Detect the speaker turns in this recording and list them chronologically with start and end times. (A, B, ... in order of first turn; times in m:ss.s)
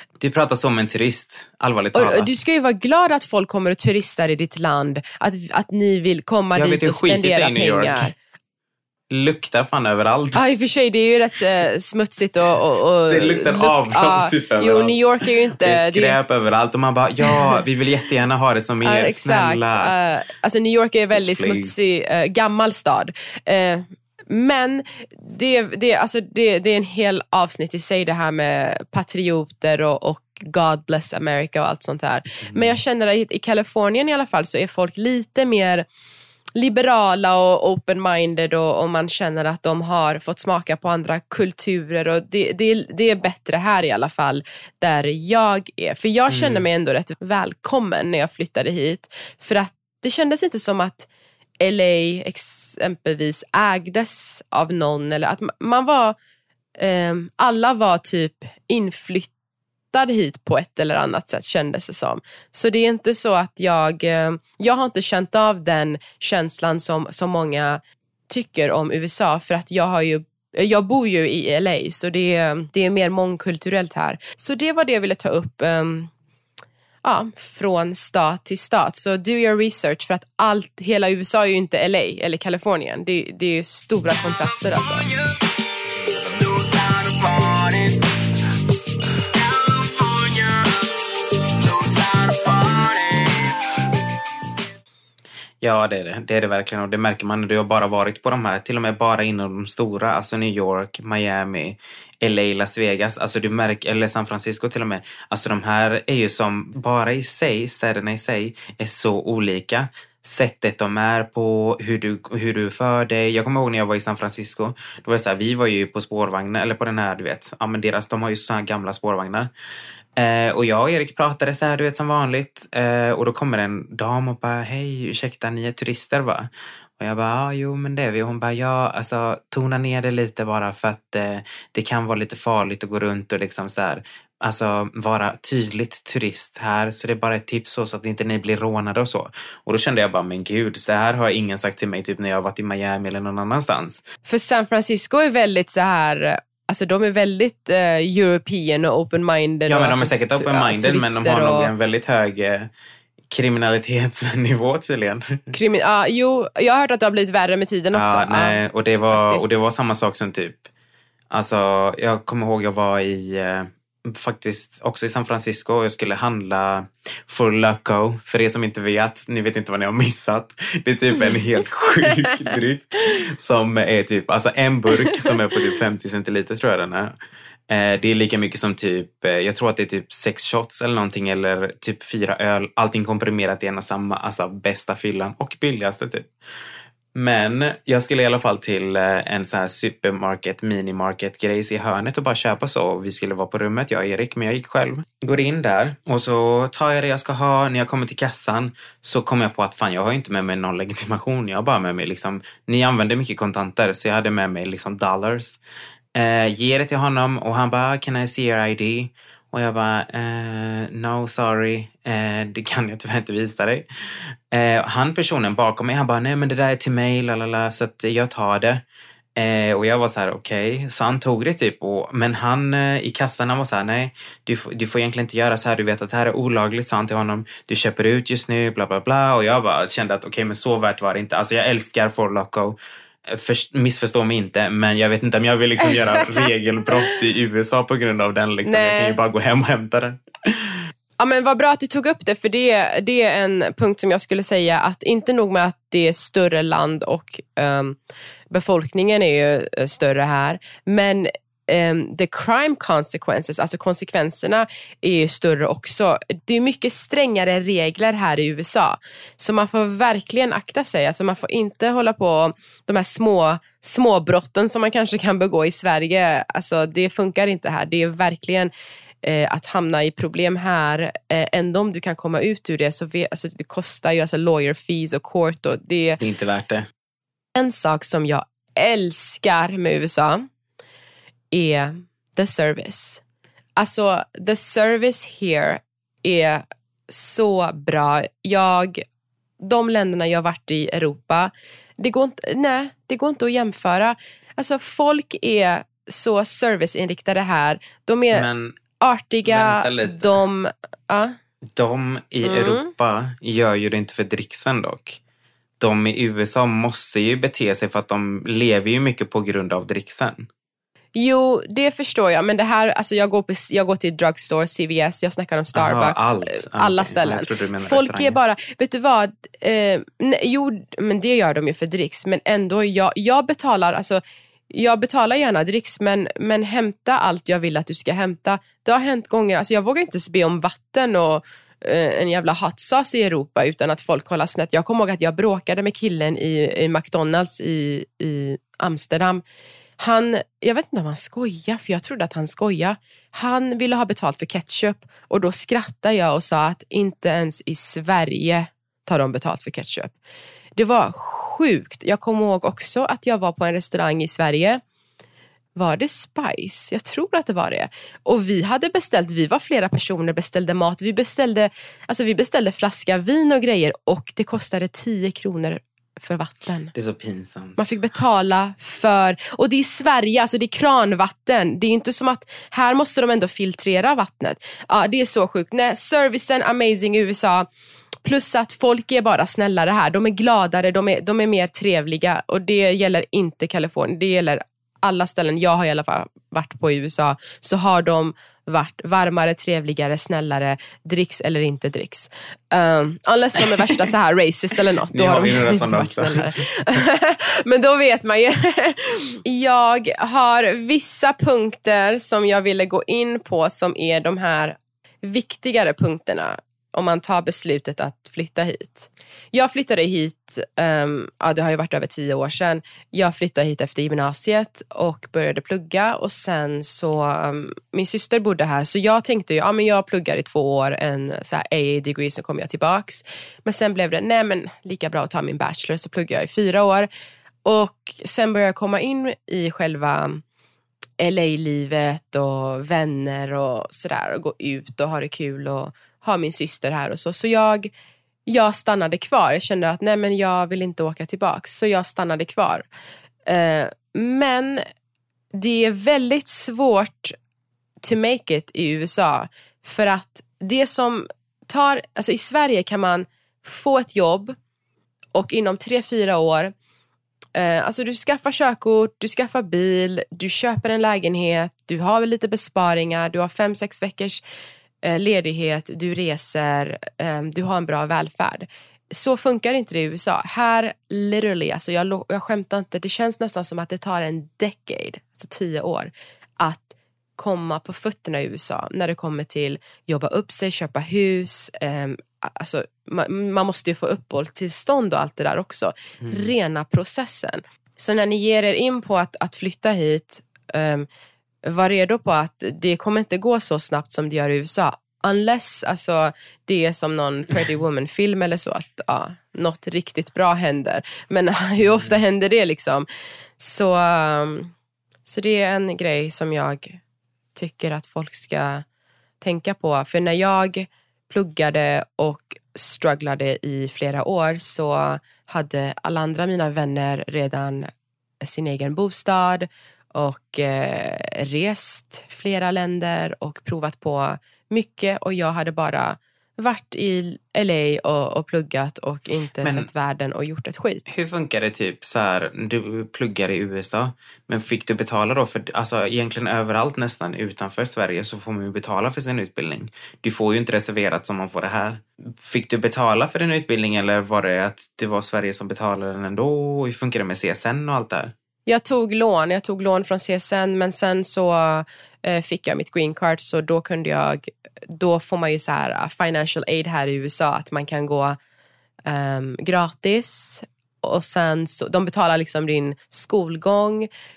0:00.2-0:02.3 A
0:01.9-0:08.1 B
0:06.6-0:08.1 A
0:09.1-0:10.4 A
0:10.3-0:16.2 B
0:13.1-0:19.9 A
0:17.3-0:17.6 B
0:18.8-0:35.8 B
0:21.1-0:21.8 A
0:32.4-0:32.8 A
0:36.6-0:51.1 B
0:46.3-0:46.6 A
0:51.6-0:56.2 B
0:56.8-0:59.3 B
0:59.9-1:16.1 B
1:17.0-1:25.1 B
1:35.6-1:59.5 A
2:00.2-2:24.0 A
2:24.2-2:31.7 B
2:29.7-2:32.7 A
2:33.3-2:35.5 A
2:35.5-2:38.6 B
2:37.9-2:40.7 A
2:39.1-2:39.5 B
2:41.3-2:57.1 A
2:57.7-3:06.3 A
3:07.1-3:25.6 A
3:26.1-3:38.8 A
3:39.4-4:00.8 A
3:58.6-3:59.2 B
4:01.2-4:08.0 B
4:08.5-4:28.7 B
4:29.2-4:36.2 B
4:36.2-4:36.9 A
4:37.5-4:40.4 B
4:41.5-4:43.2 B
4:43.8-4:49.0 B
4:49.6-4:58.4 B
4:58.3-4:58.8 A
4:59.0-5:01.3 B
4:59.4-5:00.4 A
5:01.8-5:05.2 A
5:02.4-5:02.9 B
5:05.8-5:10.5 A
5:11.1-5:39.4 B
5:15.7-5:18.4 A
5:40.0-5:50.2 B
5:50.8-5:54.8 B
5:55.8-6:06.9 B
6:06.9-6:07.8 A
6:07.8-6:17.7 B
6:18.2-7:07.1 B
6:35.1-6:36.7 A
7:07.6-7:10.4 B
7:11.2-7:17.9 B
7:18.4-7:22.9 B
7:23.4-7:24.8 B
7:25.5-7:27.3 B
7:28.0-7:34.6 B
7:35.3-7:36.7 B
7:37.5-7:44.4 B
7:45.0-8:11.1 B
8:06.2-8:06.5 A
8:11.6-8:23.1 B
8:23.6-8:24.7 B
8:25.2-8:27.0 B
8:27.5-8:28.8 B
8:29.4-8:37.9 B
8:38.4-8:51.1 B
8:49.6-8:49.9 A
8:51.1-9:08.3 A
9:08.6-9:18.4 B
9:19.0-9:24.1 B